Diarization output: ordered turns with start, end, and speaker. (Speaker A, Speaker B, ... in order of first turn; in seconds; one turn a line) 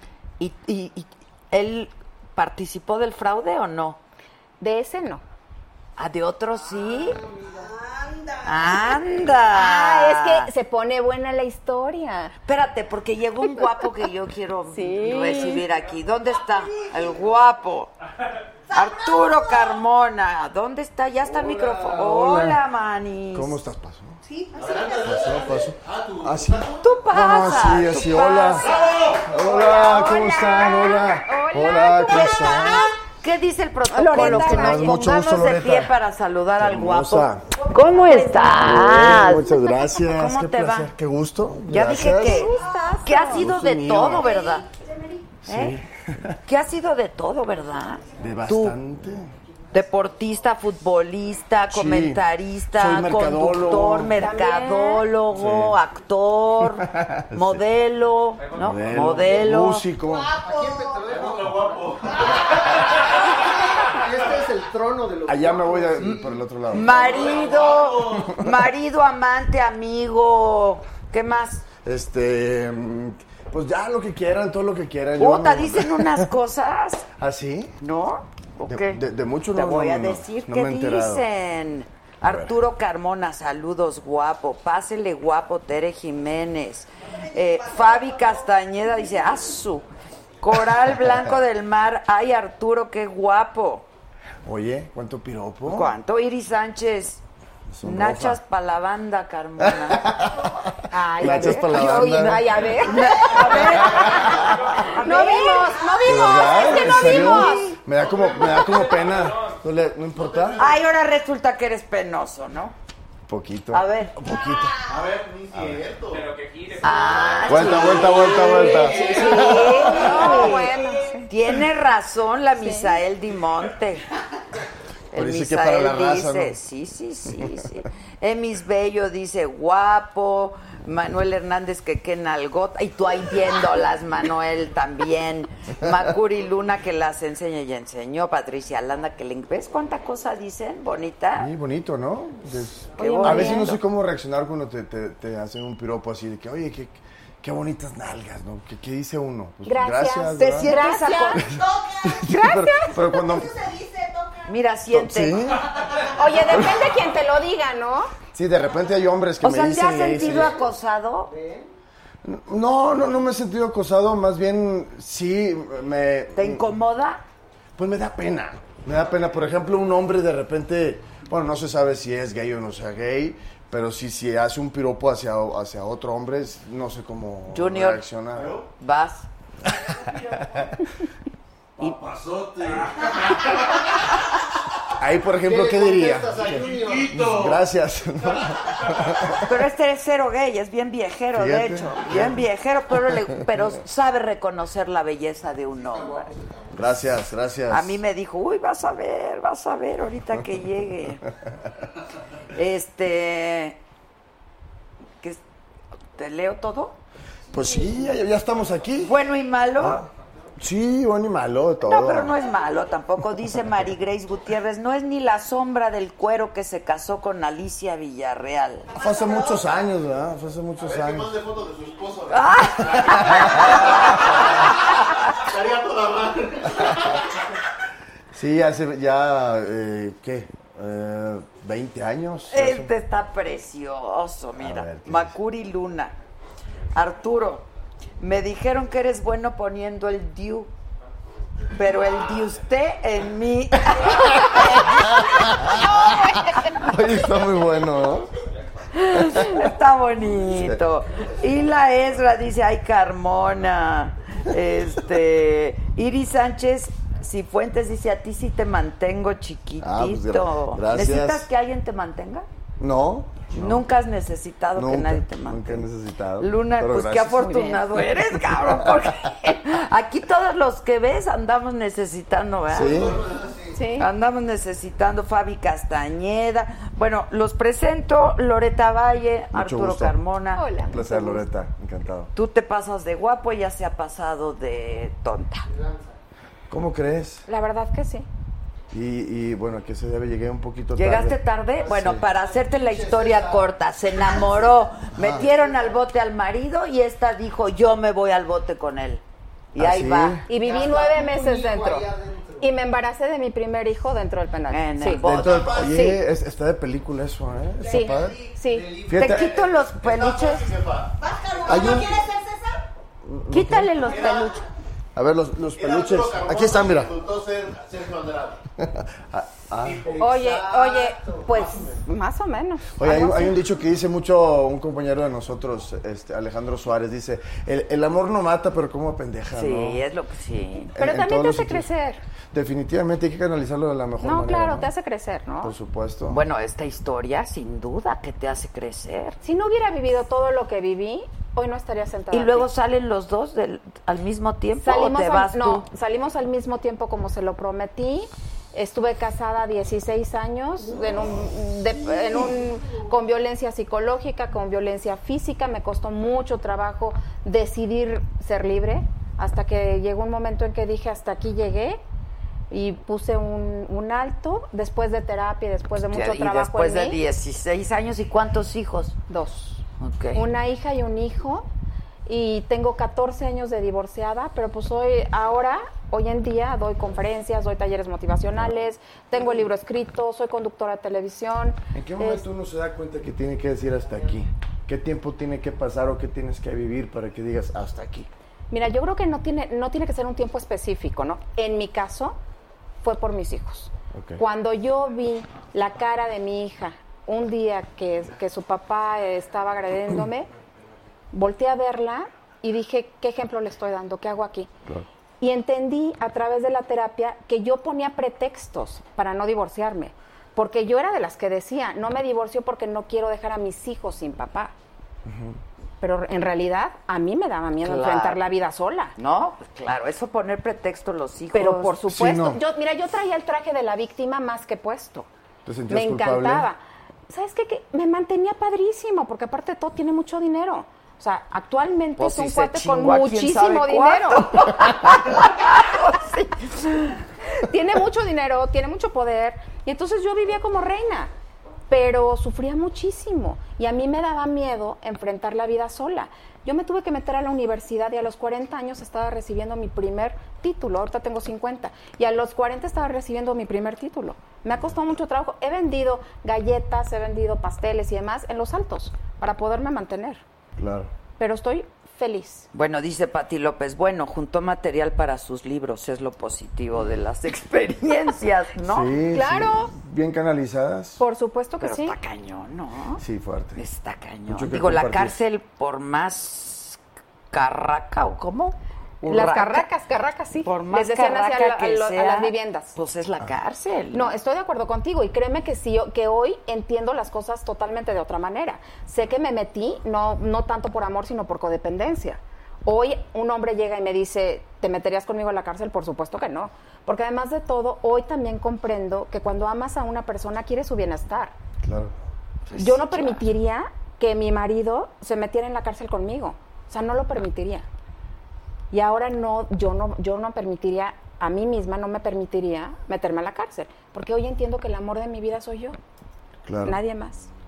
Speaker A: 0.4-4.0
Speaker B: 4.6-5.2
Speaker A: 6.0-7.2
Speaker C: 6.9-7.7
Speaker D: 7.4-9.0
Speaker A: 8.4-10.5
Speaker B: 9.5-12.3
Speaker A: 12.4-17.9
Speaker B: 13.4-13.9
Speaker B: 14.7-15.7
Speaker D: 16.4-17.2
Speaker D: 18.7-19.8
Speaker A: 18.7-23.6
Speaker E: 21.7-22.6
Speaker E: 23.3-24.2
Speaker D: 24.2-25.5
Speaker F: 24.5-27.5
Speaker E: 25.0-28.7
Speaker A: 26.8-29.0
Speaker F: 28.6-29.4
Speaker E: 29.2-32.9
Speaker B: 29.3-32.9
Speaker A: 32.0-40.9
Speaker B: 33.9-35.2
Speaker E: 34.1-35.9
Speaker E: 36.6-37.5
Speaker B: 38.0-39.8
Speaker E: 38.5-42.5
Speaker A: 41.7-44.7
Speaker B: 41.9-43.5
Speaker D: 42.5-43.3
Speaker E: 43.3-44.3
Speaker D: 44.0-45.3
Speaker E: 45.5-46.4
Speaker A: 45.5-45.8
Speaker A: 46.5-48.8
Speaker E: 48.2-49.3
Speaker A: 49.7-59.9
Speaker E: 51.7-54.3
Speaker B: 54.1-55.1
Speaker E: 55.3-55.8
Speaker E: 56.8-57.6
Speaker G: 58.4-59.2
Speaker E: 58.6-60.3
Speaker D: 60.1-61.0
Speaker C: 60.4-63.0
Speaker F: 61.0-63.0
Speaker C: 63.9-66.5
Speaker E: 65.3-66.9
Speaker F: 66.7-68.3
Speaker A: 66.7-71.7
Speaker E: 71.8-76.3
Speaker A: 75.2-77.1
Speaker E: 77.2-77.7
Speaker A: 77.8-89.9
Speaker E: 78.7-81.2
Speaker E: 82.2-82.5
Speaker D: 87.1-88.5
Speaker A: 90.4-93.9
Speaker E: 94.4-96.0
Speaker A: 95.7-97.2
Speaker E: 97.7-98.4
Speaker A: 97.8-100.1
Speaker E: 99.6-100.5
Speaker B: 100.9-104.3
Speaker A: 101.2-105.8
Speaker E: 101.2-102.6
Speaker E: 103.5-104.6
Speaker G: 104.1-105.0
Speaker B: 104.9-107.8
Speaker D: 105.5-107.3
Speaker E: 106.0-110.6
Speaker A: 106.6-107.5
Speaker F: 107.9-108.9
Speaker G: 108.4-109.6
Speaker F: 110.1-110.8
Speaker A: 110.6-112.8
Speaker E: 113.3-114.9
Speaker A: 113.7-114.2
Speaker D: 114.3-114.7
Speaker F: 114.8-116.3
Speaker E: 115.5-115.9
Speaker G: 116.1-118.1
Speaker A: 116.8-120.8
Speaker E: 117.5-119.7
Speaker F: 117.9-119.9
Speaker B: 118.6-121.3
Speaker A: 121.3-124.0
Speaker B: 122.6-123.0
Speaker A: 125.1-141.5
Speaker E: 125.1-126.6
Speaker E: 141.4-150.7
Speaker B: 143.0-143.8
Speaker A: 143.0-143.8
Speaker B: 149.7-151.5
Speaker A: 150.3-151.4
Speaker D: 151.0-154.5
Speaker E: 151.6-153.5
Speaker B: 152.2-153.0
Speaker A: 154.5-155.4
Speaker E: 154.9-155.7
Speaker D: 155.6-156.6
Speaker B: 156.1-158.1
Speaker E: 158.3-160.6
Speaker A: 159.4-161.3
Speaker C: 160.2-160.6
Speaker C: 161.2-161.7
Speaker E: 162.2-166.8
Speaker A: 166.3-167.2
Speaker E: 167.8-178.6
Speaker A: 177.5-178.1
Speaker F: 178.3-178.7
Speaker A: 178.8-179.3
Speaker E: 180.4-180.7
Speaker F: 181.8-183.9
Speaker E: 185.0-189.5
Speaker C: 185.4-187.2
Speaker F: 186.2-189.2
Speaker A: 189.4-196.3
Speaker E: 191.3-192.5
Speaker E: 193.0-193.4
Speaker C: 195.8-197.0
Speaker E: 196.7-198.0
Speaker A: 197.7-201.2
Speaker A: 202.6-203.8
Speaker A: 206.2-207.0
Speaker E: 207.5-209.2
Speaker A: 209.0-210.0
Speaker E: 209.8-212.4
Speaker A: 211.8-218.9
Speaker D: 218.9-219.8
Speaker E: 219.0-221.4
Speaker F: 220.8-227.2
Speaker A: 222.3-224.2
Speaker E: 222.9-223.8
Speaker A: 224.9-225.2
Speaker E: 228.3-232.9
Speaker A: 232.5-236.1
Speaker E: 234.6-235.3
Speaker A: 236.9-237.7
Speaker A: 238.2-240.7
Speaker A: 241.7-246.0
Speaker G: 241.9-242.5
Speaker E: 244.3-248.3
Speaker G: 245.4-245.9
Speaker G: 247.9-250.5
Speaker A: 248.9-262.5
Speaker E: 250.6-250.8
Speaker E: 259.8-261.5
Speaker E: 262.8-263.9
Speaker A: 263.5-265.9
Speaker E: 264.8-269.1
Speaker A: 266.4-273.1
Speaker F: 272.7-273.7
Speaker E: 272.7-273.2
Speaker C: 273.1-273.7
Speaker B: 273.7-274.1
Speaker A: 274.0-280.7
Speaker E: 279.5-280.2
Speaker B: 280.6-281.4
Speaker E: 280.9-282.3
Speaker A: 282.3-285.7
Speaker C: 285.7-286.2
Speaker E: 286.7-287.5
Speaker B: 287.5-288.3
Speaker E: 288.9-292.2
Speaker A: 290.9-299.2
Speaker C: 291.8-293.7
Speaker C: 294.3-294.6
Speaker E: 295.1-295.5
Speaker C: 295.4-295.9
Speaker A: 299.7-300.4
Speaker E: 299.8-300.4
Speaker B: 300.5-306.2
Speaker C: 300.5-302.7
Speaker A: 304.7-305.9
Speaker E: 305.2-308.4
Speaker F: 305.4-306.1
Speaker F: 307.8-312.1
Speaker B: 307.9-308.9
Speaker C: 308.7-309.2
Speaker E: 309.1-309.5
Speaker A: 309.1-310.7
Speaker D: 311.2-312.9
Speaker E: 311.7-312.1
Speaker E: 313.2-314.1
Speaker A: 313.5-314.6
Speaker F: 314.0-314.5
Speaker E: 315.1-317.1
Speaker F: 315.7-318.6
Speaker E: 318.8-320.1
Speaker C: 319.8-322.0
Speaker F: 319.9-320.2
Speaker B: 320.2-323.6
Speaker E: 322.9-330.0
Speaker A: 329.5-331.0
Speaker E: 331.0-331.9
Speaker B: 331.0-332.2
Speaker E: 332.5-334.9
Speaker B: 334.2-335.7
Speaker E: 335.6-336.4
Speaker A: 336.3-339.4
Speaker B: 339.4-342.7
Speaker A: 342.3-345.9
Speaker B: 344.8-362.0
Speaker B: 362.7-367.2
Speaker A: 366.1-369.2
Speaker B: 369.3-371.7
Speaker A: 370.0-370.4
Speaker B: 372.3-382.5
Speaker E: 381.9-388.3
Speaker B: 388.7-392.4
Speaker B: 393.0-400.5
Speaker E: 394.1-394.4
Speaker B: 401.3-404.7
Speaker B: 405.4-414.7
Speaker E: 415.3-415.6
Speaker B: 416.0-419.1
Speaker A: 417.8-418.4
Speaker A: 419.2-422.0
Speaker B: 421.5-425.3
Speaker E: 422.1-422.6
Speaker E: 425.6-426.7
Speaker B: 425.9-426.8
Speaker B: 427.3-434.5
Speaker A: 432.2-437.1
Speaker B: 437.6-441.3
Speaker B: 441.9-460.4
Speaker E: 460.8-461.1
Speaker B: 461.4-462.7
Speaker A: 462.7-469.1
Speaker E: 468.8-471.2
Speaker B: 469.3-469.9
Speaker B: 471.2-472.2
Speaker A: 471.8-473.2
Speaker E: 473.2-473.8
Speaker A: 473.8-477.0
Speaker E: 474.5-475.4
Speaker A: 477.5-479.9
Speaker B: 479.3-483.0
Speaker A: 480.6-484.4
Speaker B: 484.1-501.6
Speaker E: 501.8-502.1
Speaker A: 502.7-503.4
Speaker B: 502.8-507.9
Speaker B: 508.9-516.0
Speaker E: 516.6-517.0
Speaker B: 516.8-517.5